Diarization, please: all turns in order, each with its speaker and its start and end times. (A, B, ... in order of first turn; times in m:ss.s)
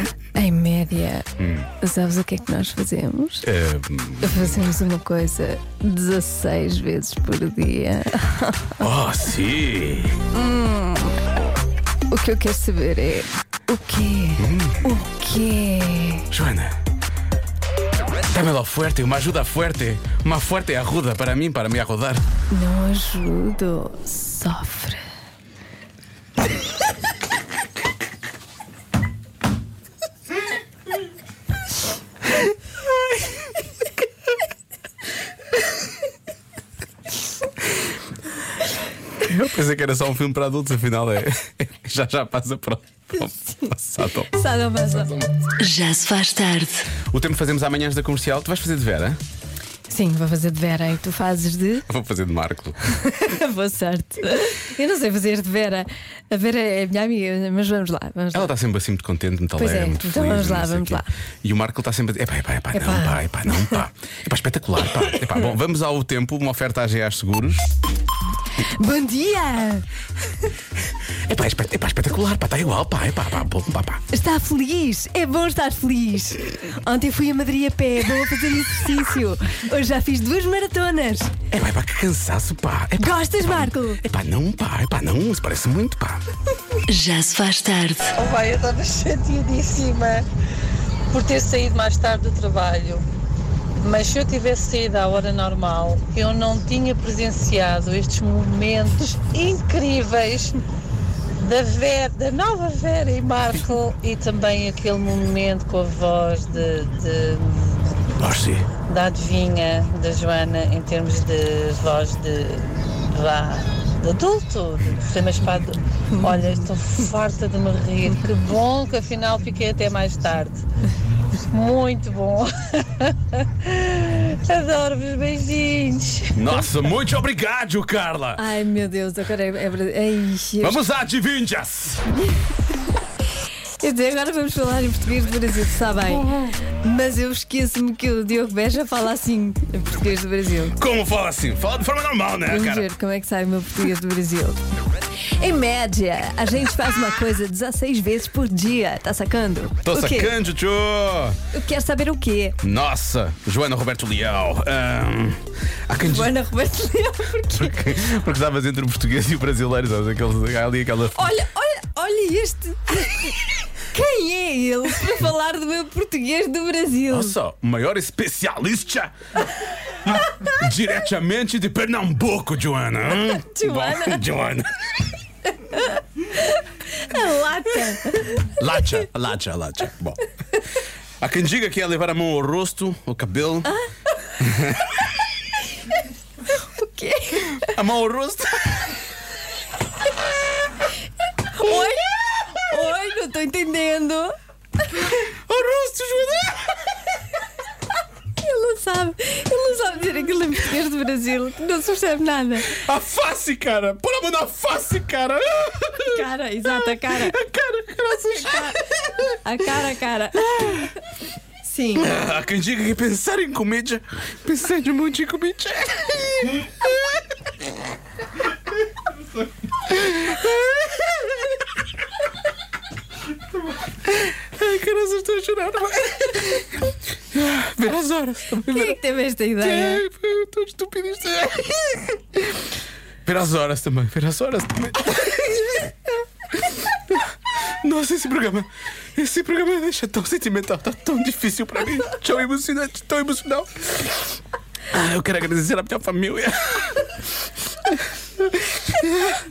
0:00.3-0:01.3 A
0:01.4-0:01.7 B
0:01.8-0:03.4 A
0:03.4-0:04.6 B
0:04.2-0:08.8 A
0:08.8-0:10.2 B
0:10.3-0:11.2 A
0:12.1-0:16.2 A
0:14.4-0:14.9 B
0:16.3-0:16.7 B
0:18.3-0:22.2 B
0:22.5-0:25.0 A
0:39.2-0:44.3 B
0:44.3-0:45.1 A
0:44.8-0:45.3 B
0:45.6-0:46.8 C
0:47.1-0:49.2 B
0:49.9-0:51.9 A
0:51.9-0:52.8 B
0:52.9-0:58.6 A
0:58.3-1:07.6 B
0:59.6-1:01.1 A
1:02.7-1:03.8 A
1:08.8-1:09.8 A
1:11.3-1:14.0 B
1:14.1-1:21.3 A
1:21.5-1:26.2 B
1:23.0-1:24.0 A
1:26.9-1:28.1 C
1:28.2-1:30.2 D
1:31.1-1:33.0 D
1:33.8-1:40.5 D
1:41.4-1:48.0 D
1:48.2-1:48.7 B
1:48.9-2:00.6 D
2:01.5-2:06.6 D
2:06.4-2:08.4 B
2:08.4-2:10.8 A
2:10.6-2:12.0 B
2:13.8-2:16.3 A
2:16.8-2:20.8 A
2:20.8-2:22.9 B
2:22.5-2:24.6 A
2:25.4-2:30.3 A
2:29.8-2:31.4 B
2:31.5-2:32.6 A
2:32.6-2:36.3 B
2:36.0-2:37.8 A
2:37.5-2:41.2 B
2:41.2-2:43.4 A
2:43.9-2:47.4 A
2:47.1-2:49.1 B
2:50.0-2:55.0 B
2:53.2-2:54.2 A
2:55.6-2:58.5 A
2:58.6-3:00.3 B
3:01.2-3:03.7 B
3:04.4-3:05.1 B
3:06.5-3:07.6 A
3:07.7-3:09.0 B
3:11.6-3:14.3 A
3:15.5-3:16.7 B
3:18.4-3:22.8 A
3:22.7-3:28.8 B
3:26.1-3:27.4 A
3:28.4-3:28.8 A
3:29.4-3:30.9 A
3:31.6-3:32.1 A
3:32.0-3:36.6 B
3:39.9-3:41.2 B
3:44.1-3:46.8 B
3:47.3-3:49.0 B
3:48.6-3:50.0 A
3:49.6-3:52.2 B
3:53.2-3:55.9 B
3:56.9-3:57.3 B
3:57.8-4:04.2 B
4:04.9-4:07.1 B
4:07.9-4:09.3 B